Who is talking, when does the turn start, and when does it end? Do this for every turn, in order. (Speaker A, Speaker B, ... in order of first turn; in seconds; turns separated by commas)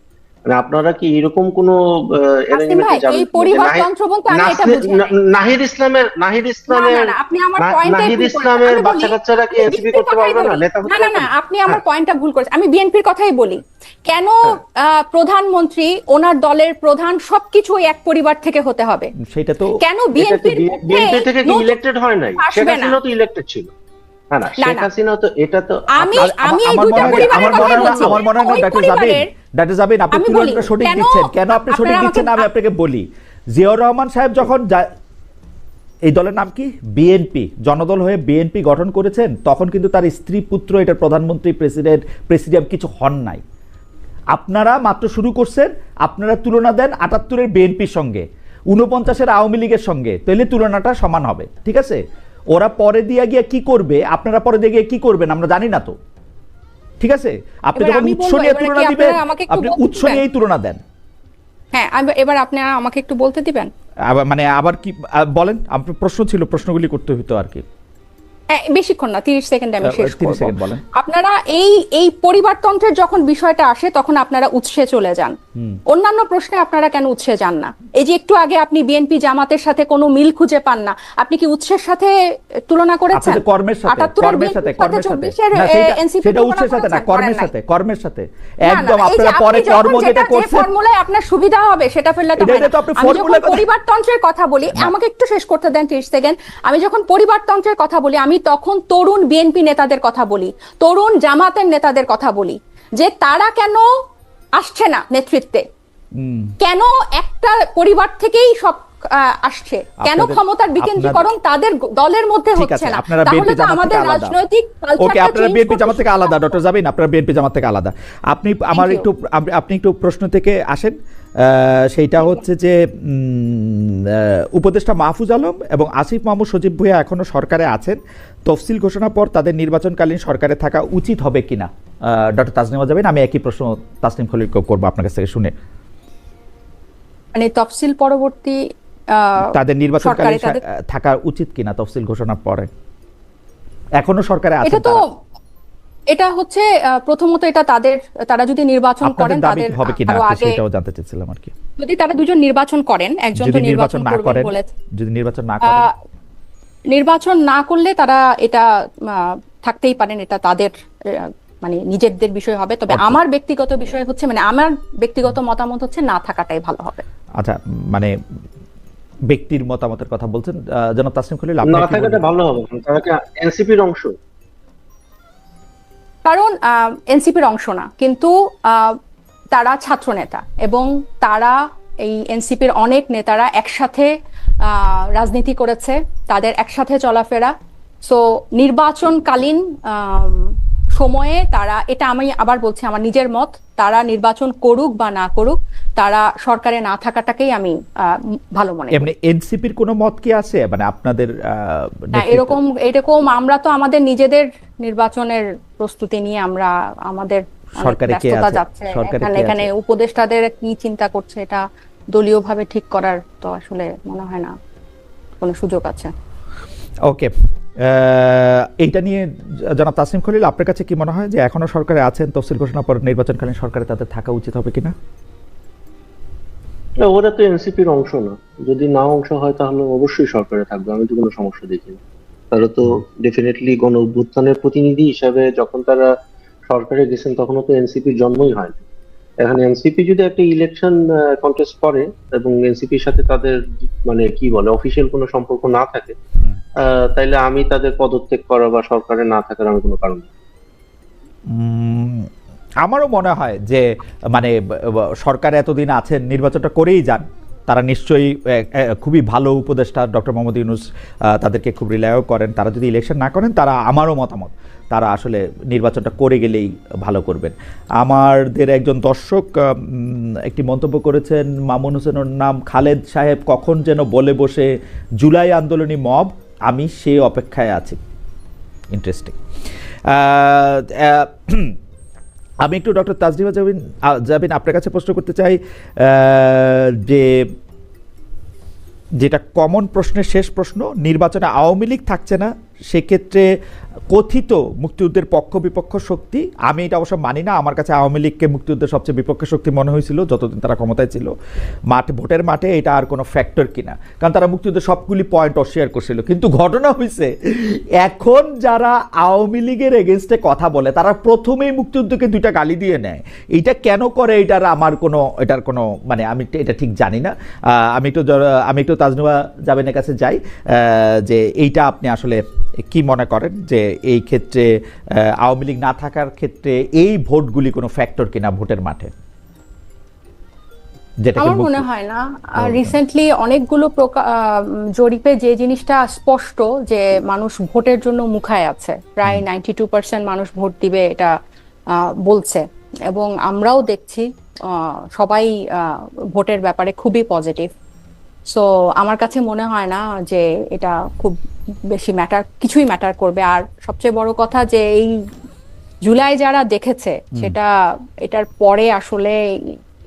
Speaker A: 0.5-11.8, Speaker B: 2.5-5.1, Speaker B: 6.7-19.1, Speaker C: 19.3-19.7, Speaker B: 19.8-21.8, Speaker A: 20.2-23.7, Speaker B: 22.4-23.0, Speaker A: 24.3-28.2, Speaker B: 24.6-24.9, Speaker B: 26.0-29.3, Speaker C: 26.2-34.9, Speaker B: 30.1-32.5, Speaker C: 36.1-43.4, Speaker C: 44.3-52.0, Speaker C: 52.5-56.0, Speaker C: 57.0-60.8, Speaker B: 57.8-60.2, Speaker B: 61.7-63.7, Speaker C: 64.1-67.7, Speaker B: 68.5-75.3, Speaker C: 69.9-70.8, Speaker C: 75.5-75.8, Speaker B: 75.9-82.1, Speaker B: 82.7-87.5, Speaker C: 83.1-90.7, Speaker B: 88.6-103.8, Speaker C: 92.4-93.6, Speaker B: 104.6-105.6, Speaker C: 106.2-106.5, Speaker B: 106.6-116.6, Speaker C: 110.0-111.2, Speaker C: 112.6-114.3, Speaker C: 115.0-135.5, Speaker B: 118.7-119.1, Speaker B: 122.2-122.4, Speaker B: 137.3-138.6, Speaker B: 139.1-140.6, Speaker C: 139.5-142.7, Speaker C: 144.0-145.0, Speaker B: 144.6-145.0, Speaker B: 146.1-150.6, Speaker C: 149.0-151.5, Speaker B: 151.8-154.7, Speaker C: 153.4-155.9, Speaker B: 155.6-155.9, Speaker B: 156.9-167.0, Speaker C: 167.4-168.1, Speaker C: 169.3-172.2, Speaker A: 171.7-174.1, Speaker B: 176.2-179.0, Speaker B: 179.5-184.1, Speaker B: 184.6-187.5, Speaker B: 188.1-199.1, Speaker C: 198.9-202.5, Speaker B: 202.1-214.5, Speaker C: 207.8-209.6, Speaker B: 215.4-216.1, Speaker C: 217.1-224.9, Speaker A: 227.0-232.0, Speaker A: 232.5-236.1, Speaker A: 236.7-238.8, Speaker A: 239.4-246.1, Speaker A: 246.8-250.3, Speaker C: 251.5-252.3, Speaker C: 252.8-278.0, Speaker C: 278.9-279.4, Speaker C: 280.1-281.8, Speaker C: 282.6-287.5, Speaker C: 289.2-293.5, Speaker C: 294.1-301.3, Speaker C: 301.9-329.1, Speaker C: 331.2-331.8, Speaker B: 331.4-341.3, Speaker C: 332.6-332.9, Speaker B: 341.9-347.7, Speaker B: 348.5-351.4, Speaker B: 351.9-355.1, Speaker B: 356.0-357.7, Speaker B: 358.2-359.8